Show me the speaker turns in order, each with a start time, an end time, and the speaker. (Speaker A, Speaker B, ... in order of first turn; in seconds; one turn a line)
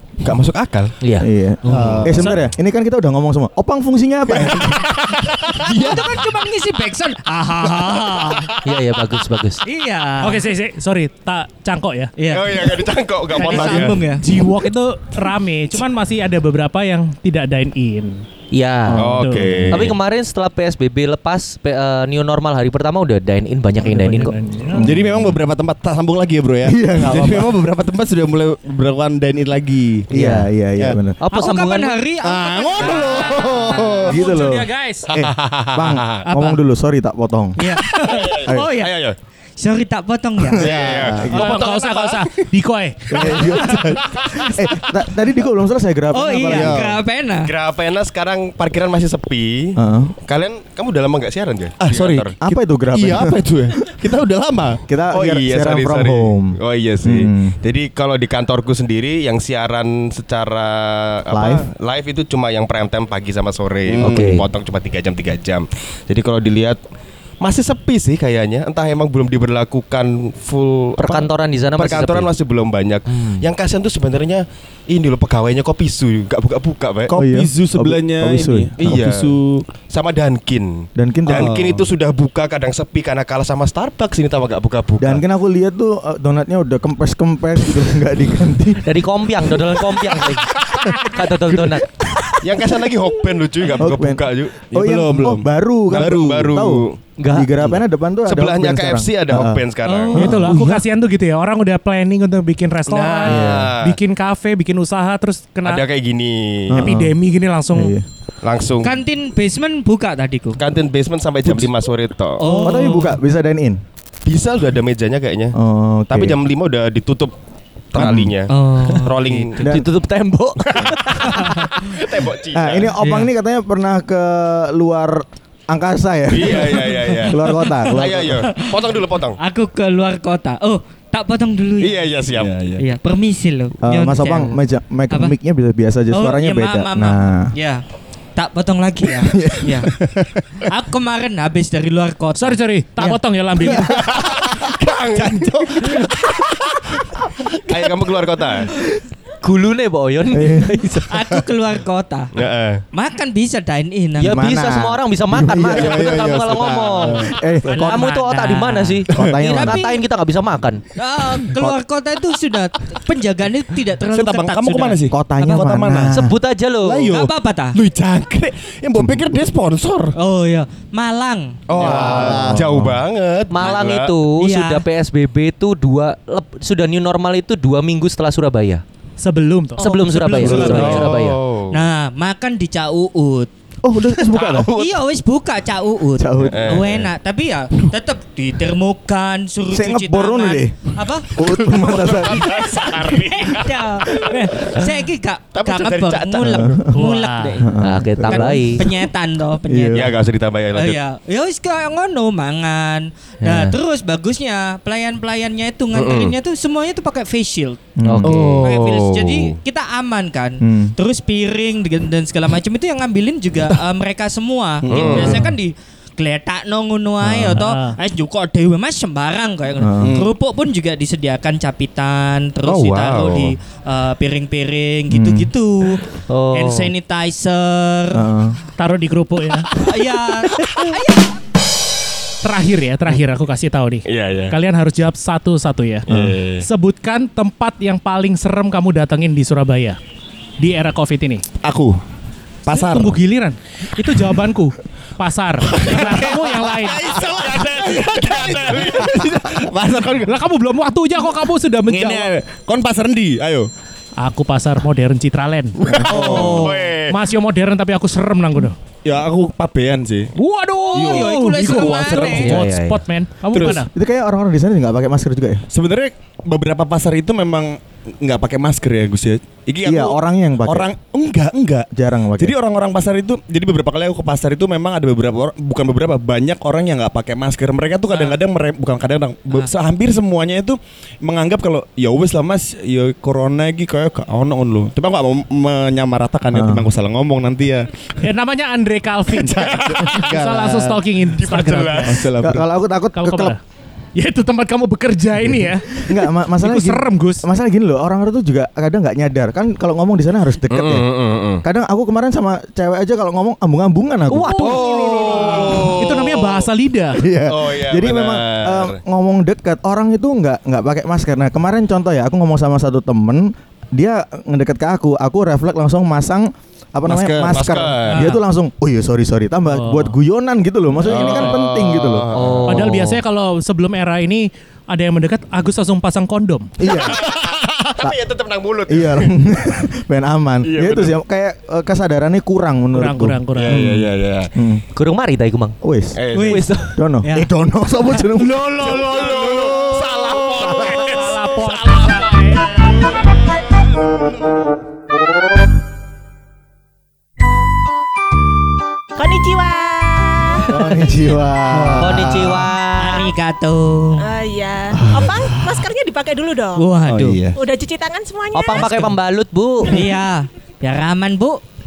Speaker A: 0.2-0.9
Speaker B: 1.0-2.1
Speaker C: 1.2-5.0
Speaker D: 1.6-2.3
Speaker A: 5.1-5.6
Speaker D: 5.5-6.1
Speaker E: 5.7-8.5
Speaker B: 8.6-9.6
Speaker E: 9.6-10.4
Speaker F: 10.2-12.1
Speaker E: 12.2-14.2
Speaker A: 12.3-14.1
Speaker F: 13.4-18.2
Speaker B: 18.5-19.1
Speaker C: 18.9-19.7
Speaker A: 18.9-20.0
Speaker F: 19.0-19.6
Speaker B: 19.7-24.3
Speaker F: 23.8-24.9
Speaker C: 24.7-25.3
Speaker D: 24.8-30.1
Speaker C: 26.6-27.5
Speaker C: 30.1-31.2
Speaker B: 30.1-30.5
Speaker B: 31.2-32.0
Speaker E: 31.3-33.8
Speaker D: 32.2-34.2
Speaker F: 34.1-35.1
Speaker C: 34.1-37.6
Speaker A: 35.1-36.2
Speaker E: 36.3-36.6
Speaker E: 37.6-39.0
Speaker A: 38.0-39.1
Speaker E: 39.6-40.7
Speaker C: 40.5-41.5
Speaker A: 40.5-42.3
Speaker D: 40.6-41.4
Speaker F: 41.3-43.4
Speaker C: 43.1-46.8
Speaker D: 43.1-44.0
Speaker E: 46.1-47.5
Speaker D: 46.5-47.0
Speaker A: 47.4-52.3
Speaker C: 49.8-50.1
Speaker D: 51.8-52.4
Speaker C: 52.4-53.4
Speaker D: 52.9-54.8
Speaker C: 54.9-57.5
Speaker A: 55.1-66.8
Speaker C: 61.3-61.7
Speaker D: 63.9-64.4
Speaker B: 64.0-64.4
Speaker A: 67.4-77.1
Speaker B: 71.0-72.3
Speaker B: 73.1-73.4
Speaker D: 77.1-79.7
Speaker C: 77.1-79.0
Speaker A: 78.8-85.2
Speaker C: 81.0-81.6
Speaker D: 81.3-81.9
Speaker C: 85.0-88.8
Speaker B: 88.8-91.9
Speaker A: 92.4-94.7
Speaker C: 93.7-99.6
Speaker D: 94.7-96.4
Speaker A: 95.9-97.0
Speaker B: 97.2-97.8
Speaker A: 98.2-100.2
Speaker E: 99.8-100.5
Speaker F: 100.1-105.8
Speaker C: 100.1-100.8
Speaker A: 102.9-104.0
Speaker C: 103.2-103.7
Speaker A: 105.6-106.8
Speaker C: 106.7-107.2
Speaker F: 106.7-107.9
Speaker C: 107.7-108.0
Speaker A: 108.4-109.0
Speaker E: 108.8-110.6
Speaker A: 110.6-112.7
Speaker E: 112.4-113.2
Speaker C: 112.6-113.8
Speaker A: 114.2-115.6
Speaker C: 115.5-116.4
Speaker A: 116.1-117.3
Speaker A: 117.9-119.7
Speaker C: 118.0-118.3
Speaker E: 118.5-119.5
Speaker C: 119.6-119.9
Speaker B: 119.6-121.7
Speaker A: 121.8-123.0
Speaker C: 122.5-128.5
Speaker A: 126.3-129.4
Speaker E: 128.4-128.7
Speaker E: 129.4-132.1
Speaker A: 131.8-132.6
Speaker D: 132.3-132.8
Speaker E: 132.8-134.6
Speaker C: 133.8-137.5
Speaker E: 135.1-135.3
Speaker E: 136.1-137.8
Speaker E: 138.3-139.9
Speaker C: 139.2-139.9
Speaker D: 140.0-140.4
Speaker E: 140.6-143.2
Speaker F: 142.4-144.0
Speaker A: 143.8-146.0
Speaker D: 144.1-146.8
Speaker D: 147.5-148.0
Speaker A: 147.7-148.7
Speaker B: 149.4-151.1
Speaker C: 150.3-151.0
Speaker E: 151.1-152.3
Speaker A: 152.3-152.8
Speaker E: 152.9-154.4
Speaker C: 154.2-156.1
Speaker B: 154.2-160.8
Speaker D: 155.7-157.3
Speaker C: 157.2-158.0
Speaker F: 157.7-158.1
Speaker E: 157.7-160.0
Speaker C: 159.1-159.9
Speaker E: 160.9-165.6
Speaker D: 164.1-166.2
Speaker C: 165.1-166.3
Speaker B: 166.1-167.1
Speaker D: 166.8-170.2
Speaker E: 167.1-167.8
Speaker E: 170.2-171.6
Speaker A: 171.7-174.2
Speaker D: 171.7-172.9
Speaker C: 171.8-173.0
Speaker B: 173.5-178.8
Speaker E: 174.4-174.8
Speaker F: 179.2-181.1
Speaker B: 179.8-181.4
Speaker E: 179.8-180.8
Speaker C: 180.3-181.1
Speaker A: 180.5-181.8
Speaker E: 181.7-183.5
Speaker C: 183.8-184.7
Speaker A: 184.3-184.9
Speaker E: 184.7-191.3
Speaker C: 186.2-186.9
Speaker A: 186.4-187.0
Speaker C: 189.7-192.7
Speaker A: 191.6-194.3
Speaker E: 192.4-200.2
Speaker A: 195.5-196.8
Speaker C: 196.4-196.9
Speaker F: 196.9-197.6
Speaker C: 197.6-198.9
Speaker B: 197.8-198.8
Speaker C: 199.7-200.1
Speaker A: 199.9-201.0
Speaker E: 200.7-207.8
Speaker B: 203.4-203.8
Speaker A: 205.9-206.3
Speaker C: 208.0-208.6
Speaker B: 208.0-208.7
Speaker D: 208.2-208.6
Speaker A: 208.6-209.6
Speaker E: 208.6-228.3
Speaker C: 210.6-210.9
Speaker D: 214.8-215.5
Speaker A: 214.9-215.4
Speaker C: 217.2-217.6
Speaker F: 217.6-217.9
Speaker C: 219.8-220.2
Speaker D: 220.0-220.3
Speaker A: 222.6-223.6
Speaker C: 225.1-225.5
Speaker B: 226.3-226.9
Speaker C: 228.1-228.6
Speaker F: 228.8-229.7
Speaker E: 229.8-231.3
Speaker F: 232.4-236.1
Speaker A: 234.0-234.5
Speaker A: 236.1-236.7
Speaker F: 236.6-240.0
Speaker F: 240.6-241.4
Speaker D: 241.6-242.0
Speaker D: 242.7-243.2
Speaker F: 242.7-247.1
Speaker D: 245.7-250.4
Speaker A: 247.1-249.2
Speaker F: 250.3-252.3
Speaker D: 251.8-253.7
Speaker F: 254.2-255.8
Speaker D: 255.8-256.8
Speaker C: 256.0-256.6
Speaker B: 256.1-256.9
Speaker A: 256.1-257.2
Speaker F: 257.1-258.8
Speaker D: 259.0-260.3
Speaker F: 260.3-263.9
Speaker E: 260.8-262.6
Speaker D: 260.9-262.6
Speaker B: 262.2-263.0
Speaker D: 263.5-263.8
Speaker C: 263.6-265.6
Speaker D: 265.7-287.9
Speaker C: 269.8-270.9
Speaker C: 271.9-272.5
Speaker C: 286.5-286.9
Speaker F: 288.2-292.2
Speaker D: 289.4-292.7
Speaker A: 289.7-290.2
Speaker A: 291.4-292.2
Speaker C: 292.4-293.6
Speaker F: 293.1-293.6
Speaker F: 294.2-297.4
Speaker C: 295.9-301.1
Speaker A: 300.7-301.6
Speaker C: 301.6-304.8
Speaker B: 304.3-305.9
Speaker F: 304.5-307.2
Speaker A: 304.6-306.7
Speaker C: 307.1-322.3
Speaker A: 307.5-309.0
Speaker D: 317.1-317.6
Speaker A: 317.3-318.2
Speaker F: 318.1-318.4
Speaker F: 319.7-320.1
Speaker A: 321.0-322.9
Speaker B: 322.3-323.2
Speaker F: 322.6-326.7
Speaker C: 326.8-327.3
Speaker A: 326.8-329.3
Speaker C: 328.9-334.8
Speaker A: 330.6-331.1
Speaker F: 332.9-333.8
Speaker A: 333.5-334.5
Speaker B: 334.9-335.8
Speaker C: 335.8-336.2
Speaker A: 336.1-336.7
Speaker E: 336.3-337.5
Speaker B: 336.5-336.8
Speaker C: 336.9-339.3
Speaker F: 338.4-339.1
Speaker A: 338.6-343.2
Speaker D: 338.9-341.1
Speaker C: 340.5-341.0
Speaker F: 340.8-342.7
Speaker G: 349.1-350.8
Speaker C: 350.7-352.7
Speaker D: 351.8-352.2
Speaker B: 351.9-353.3
Speaker E: 353.0-354.2
Speaker G: 354.2-356.9
Speaker E: 356.8-357.4
Speaker D: 357.1-357.6
Speaker G: 357.5-359.0
Speaker B: 358.5-360.1
Speaker E: 358.7-359.1
Speaker E: 359.8-361.6